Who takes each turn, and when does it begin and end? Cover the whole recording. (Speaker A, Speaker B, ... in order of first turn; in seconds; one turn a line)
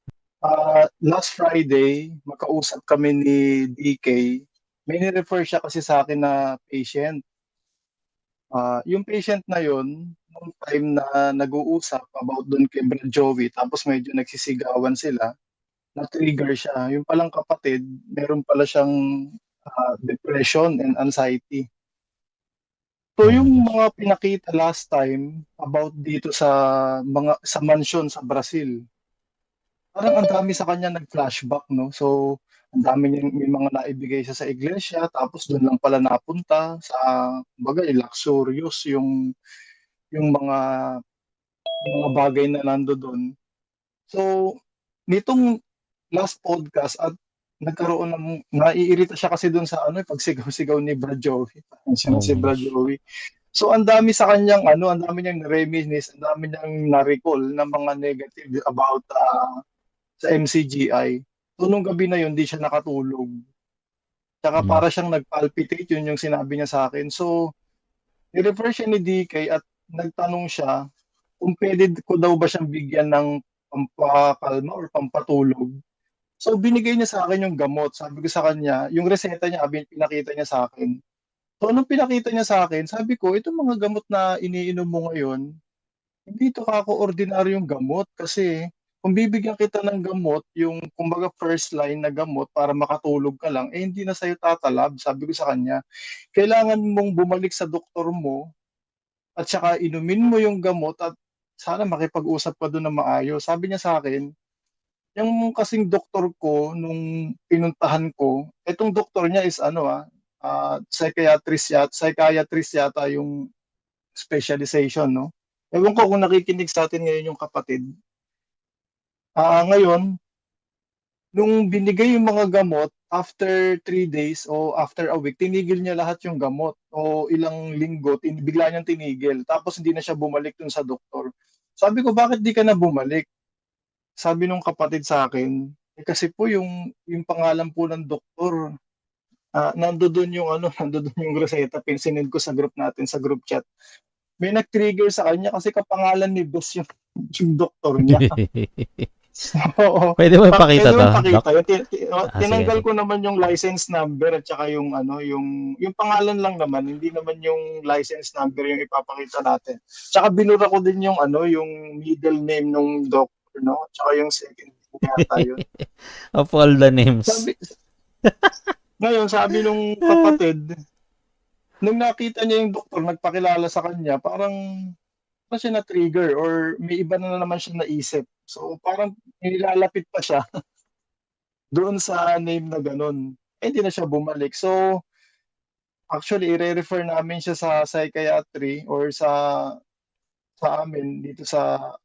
Speaker A: 0.5-4.3
Speaker A: 4.9-7.2
Speaker A: 8.5-15.2
Speaker A: 16.0-18.9
Speaker A: 19.7-21.6
Speaker A: 23.2-26.5
Speaker B: 23.2-23.7
Speaker A: 27.1-28.7
Speaker A: 30.0-32.1
Speaker A: 32.8-37.1
Speaker A: 37.6-39.1
Speaker A: 40.1-40.6
Speaker A: 41.9-43.2
Speaker A: 45.1-45.4
Speaker A: 46.2-47.1
Speaker A: 47.6-53.0
Speaker B: 52.1-52.7
Speaker A: 53.5-59.5
Speaker A: 60.2-63.3
Speaker A: 64.4-67.3
Speaker A: 68.3-70.7
Speaker A: 71.4-75.7
Speaker A: 76.4-80.9
Speaker A: 81.6-85.4
Speaker A: 86.3-88.5
Speaker A: 89.0-95.8
Speaker A: 96.3-98.4
Speaker A: 99.4-104.2
Speaker A: 105.2-113.3
Speaker A: 114.2-117.8
Speaker A: 119.4-120.0
Speaker A: 121.4-131.3
Speaker A: 131.8-133.2
Speaker A: 134.2-138.6
Speaker A: 139.6-143.6
Speaker A: 144.4-146.8
Speaker A: 147.3-148.4
Speaker B: 148.0-149.1
Speaker A: 149.4-165.6
Speaker B: 150.2-151.4
Speaker B: 152.3-152.8
Speaker B: 165.1-165.4
Speaker B: 166.4-167.4
Speaker A: 167.3-167.5
Speaker A: 169.0-170.6
Speaker A: 171.8-174.6
Speaker A: 175.5-180.4
Speaker A: 181.8-184.7
Speaker A: 186.1-189.3
Speaker A: 190.6-191.6